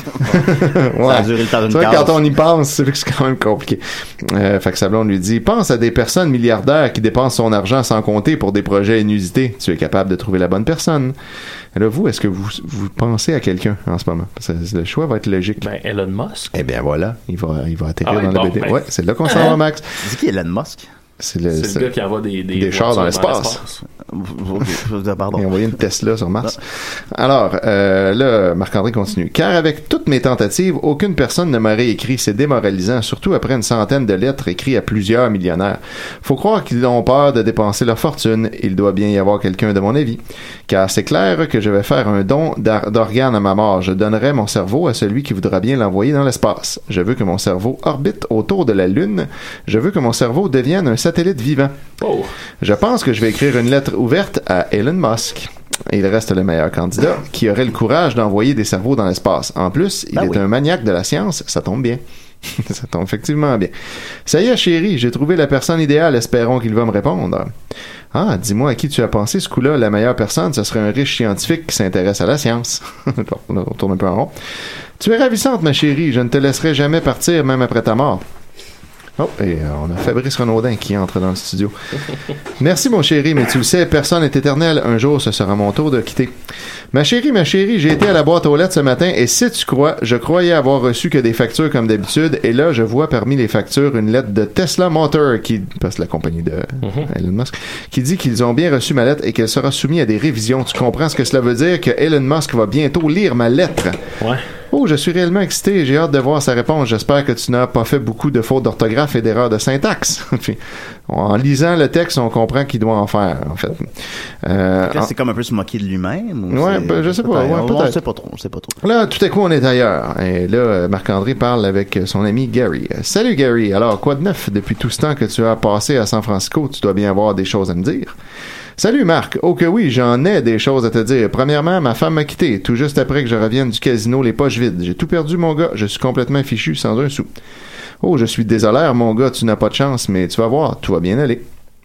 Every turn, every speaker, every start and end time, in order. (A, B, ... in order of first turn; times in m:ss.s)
0:00.2-0:11.1 A
0:01.0-0:02.2 B
0:11.7-0:15.7 A
0:15.6-0:16.5 C
0:16.5-0:20.0 A
0:18.0-0:19.6 C
0:20.0-0:20.9 B
0:21.2-0:21.9 A
0:21.5-0:23.8 C
0:22.5-0:23.6 A
0:24.0-0:25.5 B
0:25.3-0:51.8 A
0:52.0-0:52.3 C
0:52.6-1:03.7 A
1:00.1-1:00.4 B
1:04.2-1:07.5 A
1:08.1-1:14.3 A
1:15.0-1:18.2 A
1:19.2-1:21.8 A
1:22.6-1:26.3 A
1:26.9-1:44.0 A
1:36.8-1:37.1 C
1:44.7-1:55.1 A
1:54.8-1:58.8 B
1:56.5-1:58.0 A
1:58.8-2:08.2 A
2:08.8-2:17.3 A
2:18.0-2:21.4 A